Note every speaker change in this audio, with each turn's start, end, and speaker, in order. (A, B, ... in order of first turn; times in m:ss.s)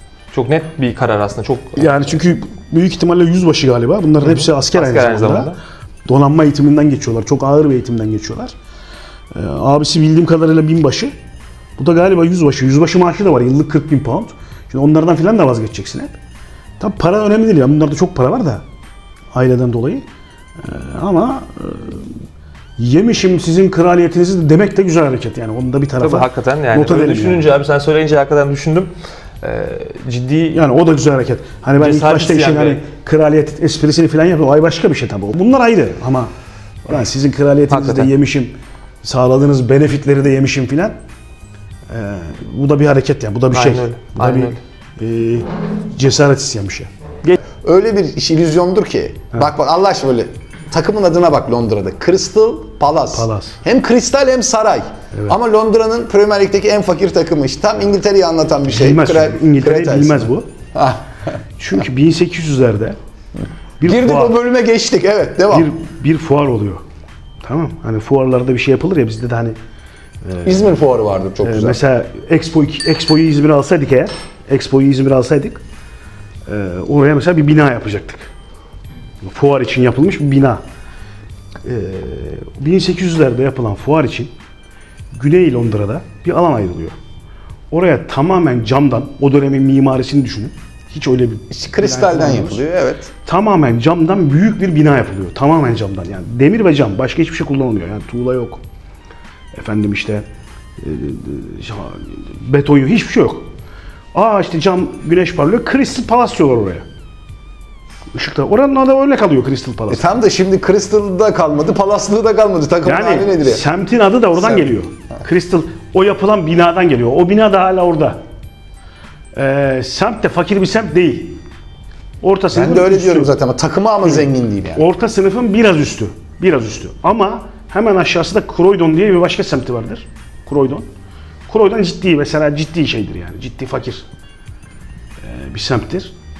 0:00.3-0:02.1 A
0:01.8-0:05.5 B
0:04.2-0:05.6 A
0:06.1-0:08.6 B
0:09.3-0:11.1 B
0:11.8-0:16.2 B
0:16.8-0:18.6 B
0:19.3-0:20.0 B
0:20.6-0:22.2 B
0:22.8-0:27.5 B
0:26.0-0:30.6 A
0:30.5-0:36.3 B
0:31.8-0:32.8 A
0:36.8-0:41.0 B
0:37.7-0:38.1 A
0:41.9-0:46.9 B
0:43.5-0:44.6 A
0:47.6-1:01.0 C
0:53.1-0:53.6 B
0:58.7-1:00.5 B
1:01.6-1:03.0 B
1:03.8-1:04.4 B
1:03.8-1:05.7 C
1:05.5-1:06.8 B
1:07.4-1:09.6 B
1:10.2-1:10.7 B
1:10.4-1:11.8 C
1:11.4-1:15.6 B
1:16.5-1:18.3 B
1:19.2-1:20.6 B
1:21.6-1:24.3 B
1:25.1-1:27.0 B
1:27.7-1:32.6 B
1:31.5-1:33.1 C
1:33.2-1:38.6 B
1:39.5-1:40.3 B
1:40.8-1:43.5 B
1:44.1-1:46.8 B
1:48.1-1:50.1 B
1:49.9-1:53.6 C
1:52.8-1:58.2 B
1:54.4-1:54.7 C
1:59.3-2:01.4 B
2:02.2-2:03.3 B
2:02.5-2:04.8 C
2:04.1-2:10.9 B
2:11.5-2:14.1 B
2:15.2-2:16.1 B